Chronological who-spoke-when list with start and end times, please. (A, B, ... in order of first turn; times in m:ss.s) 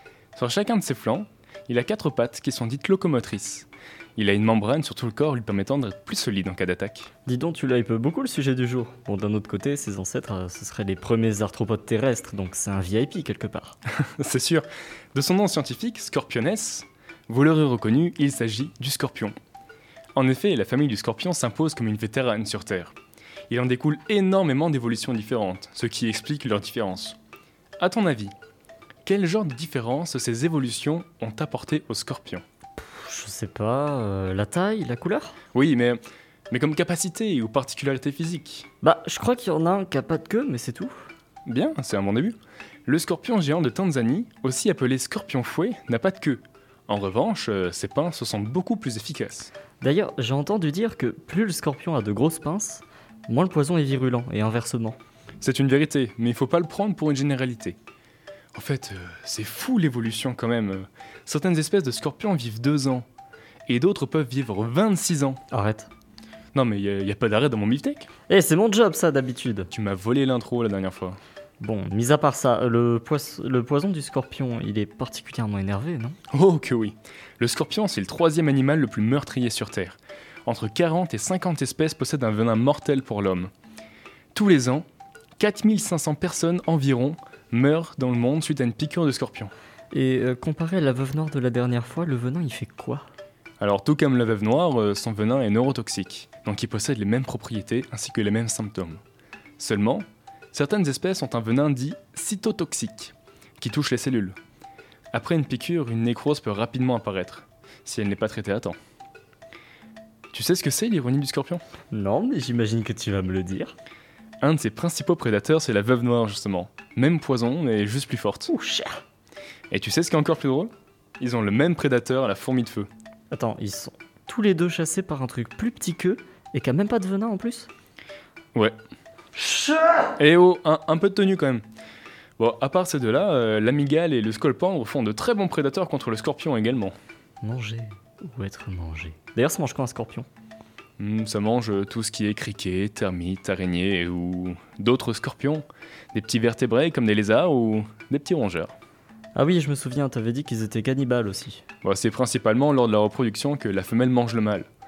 0:00.4-0:07.1 A
0:07.2-0:13.8 B
0:14.0-0:19.3 A
0:20.1-0:22.9 A
0:23.5-0:27.2 A
0:27.8-0:28.3 A
0:29.0-0:32.4 A
0:32.8-0:35.4 B
0:35.5-0:38.6 A
0:38.8-0:40.9 B
0:41.4-0:49.5 A
0:49.8-0:55.0 B
0:55.4-0:57.8 A
0:58.5-1:03.0 A
1:03.7-1:05.4 A
1:05.5-1:05.9 B
1:06.5-1:08.1 A
1:08.3-1:09.7 B
1:09.7-1:11.2 A
1:11.6-1:16.2 B
1:16.3-1:23.5 A
1:24.3-1:24.8 A
1:25.4-1:29.5 A
1:29.9-1:33.0 B
1:33.6-1:39.0 A
1:39.6-1:44.4 A
1:45.1-1:48.8 A
1:50.3-1:51.6 A
1:51.9-1:53.7 B
1:54.4-1:58.5 A
1:58.5-1:59.0 B
1:59.7-2:02.9 A
2:03.3-2:07.7 B
2:09.4-2:10.1 B
2:10.2-2:11.6 A
2:12.4-2:16.9 A
2:17.4-2:20.3 B
2:21.0-2:28.7 A
2:29.3-2:31.6 B
2:31.8-2:34.7 A